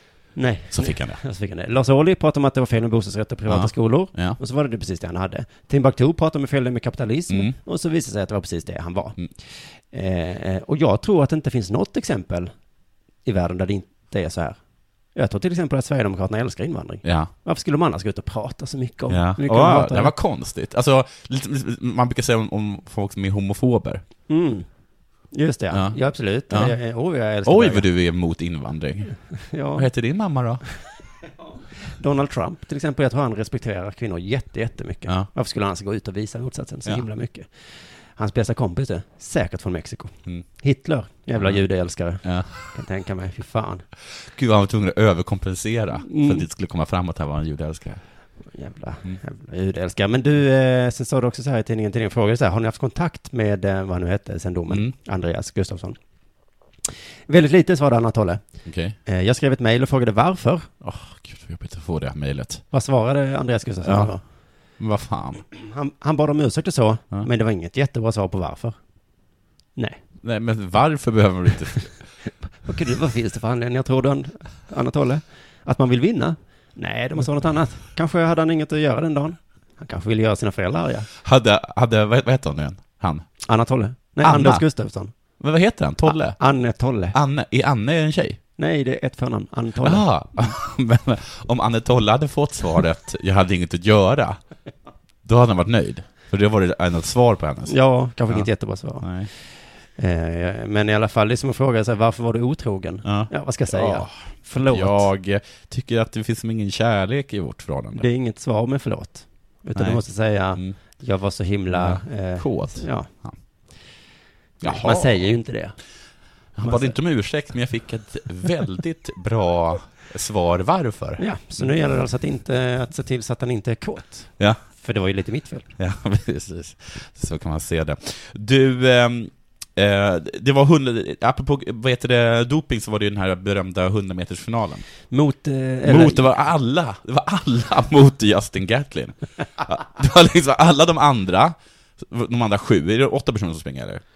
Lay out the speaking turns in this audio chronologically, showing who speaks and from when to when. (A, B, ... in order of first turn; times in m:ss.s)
0:00.3-0:09.3 A
0:00.7-0:01.2 B
0:03.5-0:04.4 B
0:07.3-0:07.6 B
0:09.9-0:12.5 A
0:13.2-0:14.6 A
0:15.1-0:20.1 A
0:17.0-0:17.3 B
0:19.1-0:24.0 B
0:24.3-0:24.6 A
0:25.3-0:27.8 A
0:25.7-0:26.8 B
0:27.4-0:29.2 B
0:29.4-0:29.8 A
0:29.7-0:30.6 B
0:32.0-0:37.5 A
0:38.1-0:43.8 A
0:41.3-0:42.6 B
0:44.3-0:48.0 B
0:46.0-0:46.4 A
0:48.5-0:56.0 A
0:54.7-0:54.9 B
0:57.3-0:58.4 A
0:58.6-0:59.0 B
0:59.0-1:00.7 A
1:00.8-1:02.6 B
1:02.7-1:04.2 A
1:03.8-1:04.1 B
1:04.8-1:05.4 B
1:05.6-1:08.8 A
1:10.2-1:11.9 B
1:12.6-1:21.1 A
1:21.2-1:23.2 B
1:23.4-1:25.1 A
1:24.2-1:24.7 B
1:25.4-1:26.5 B
1:26.1-1:27.1 A
1:27.1-1:28.4 B
1:28.6-1:30.0 A
1:29.8-1:34.4 B
1:35.2-1:37.8 B
1:37.7-1:39.2 A
1:38.3-1:39.3 B
1:40.0-1:45.1 A
1:43.0-1:48.1 B
1:47.9-1:53.1 A
1:49.7-1:50.0 B
1:51.7-1:53.4 B
1:54.6-1:55.7 A
1:54.6-1:55.3 B
1:56.6-2:01.7 B
1:56.6-1:57.0 A
2:01.2-2:05.7 A
2:05.8-2:14.8 B
2:15.1-2:16.2 A
2:15.8-2:24.0 B